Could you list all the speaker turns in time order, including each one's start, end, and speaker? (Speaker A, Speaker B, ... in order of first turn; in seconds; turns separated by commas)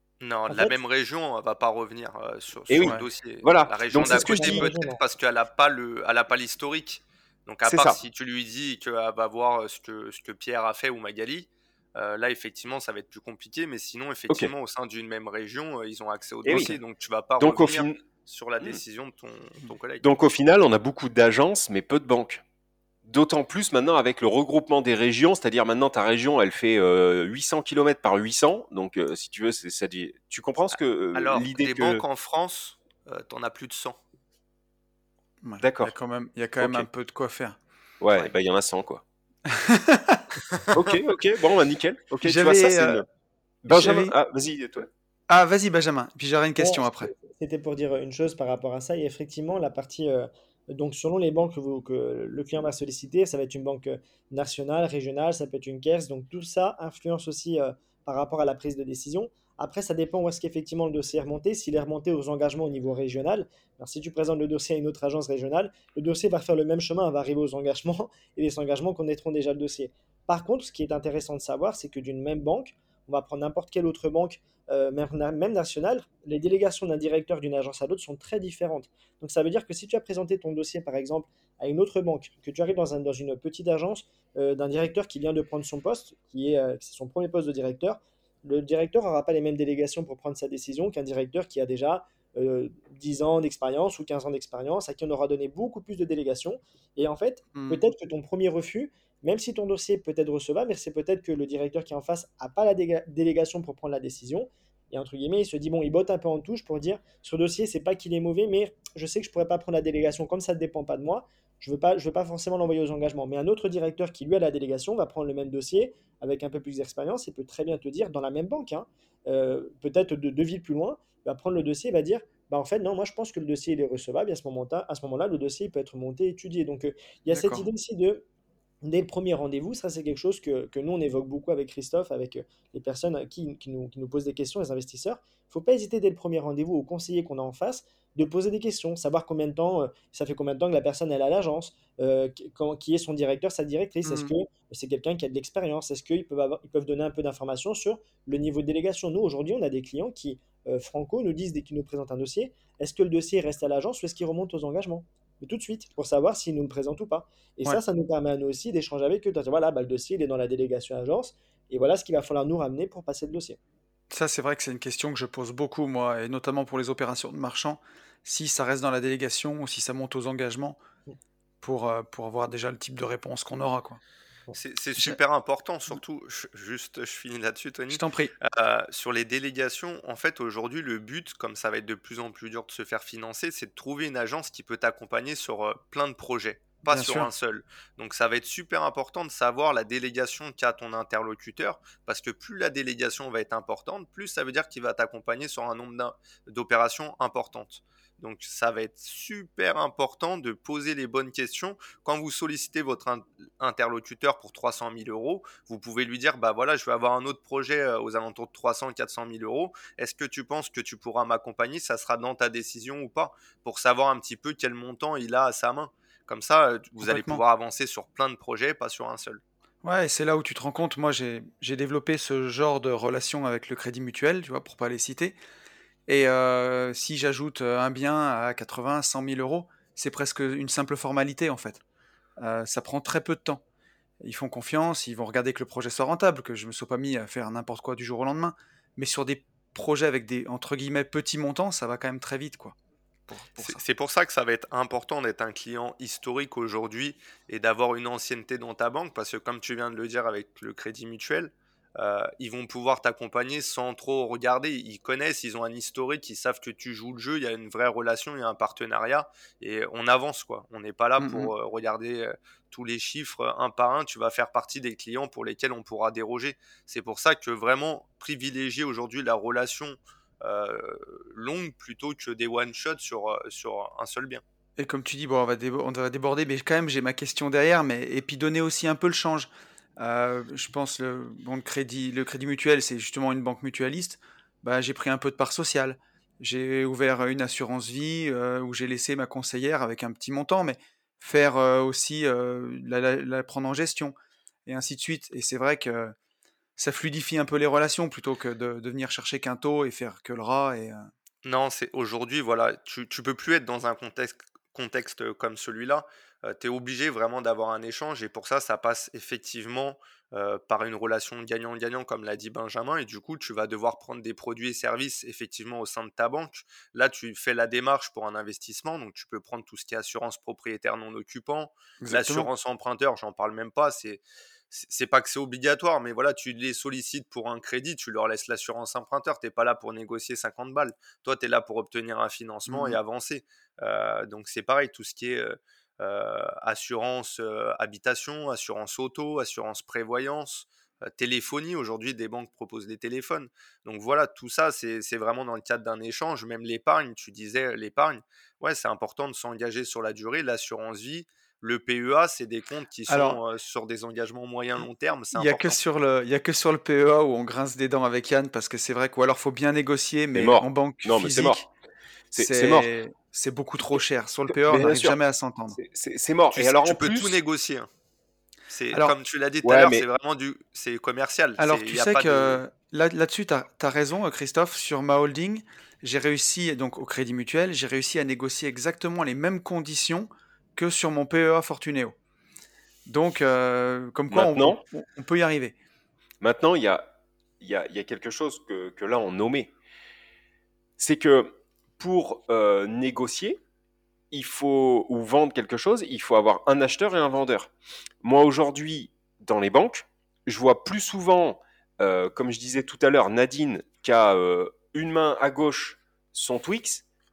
Speaker A: 0.2-20.1, Speaker B: 0.5-0.8, Speaker C: 2.7-4.7, Speaker B: 4.0-5.0, Speaker C: 7.6-8.0, Speaker C: 16.4-16.8, Speaker D: 16.5-16.7, Speaker C: 17.4-18.0, Speaker C: 20.0-22.4, Speaker C: 23.1-32.0, Speaker A: 31.1-34.0, Speaker D: 35.4-37.6, Speaker C: 35.6-35.9, Speaker C: 36.6-36.9, Speaker C: 38.0-39.0, Speaker D: 39.5-40.4, Speaker A: 40.6-40.9, Speaker C: 40.7-43.1, Speaker D: 42.2-43.0, Speaker C: 43.6-44.9, Speaker D: 43.7-44.1, Speaker D: 45.3-47.1, Speaker B: 46.6-128.2, Speaker D: 97.5-97.8, Speaker D: 127.3-127.6, Speaker B: 128.8-163.6, Speaker D: 144.1-144.3, Speaker D: 164.1-170.8, Speaker D: 171.6-174.0, Speaker A: 174.5-219.4, Speaker D: 177.9-178.3, Speaker D: 186.9-187.3, Speaker D: 217.0-217.4, Speaker D: 219.8-225.4, Speaker D: 226.1-231.8, Speaker D: 232.4-233.6, Speaker D: 234.2-242.7, Speaker D: 243.3-243.8, Speaker A: 243.6-274.4, Speaker D: 261.2-261.5, Speaker D: 274.8-294.1, Speaker D: 294.6-296.1, Speaker D: 296.8-301.1, Speaker A: 301.4-355.8, Speaker D: 322.0-322.5, Speaker D: 332.7-333.0, Speaker D: 353.1-353.4, Speaker D: 355.3-361.6, Speaker C: 360.3-361.6, Speaker C: 362.3-362.9, Speaker D: 362.4-365.8, Speaker C: 364.5-365.2, Speaker C: 365.8-367.4, Speaker A: 366.5-367.9, Speaker A: 368.7-372.6, Speaker C: 369.6-370.1, Speaker D: 371.6-382.1, Speaker D: 383.1-385.7, Speaker C: 384.3-384.8, Speaker C: 386.4-387.1, Speaker C: 387.6-389.7, Speaker C: 391.0-393.6, Speaker C: 394.3-397.7, Speaker C: 398.2-407.0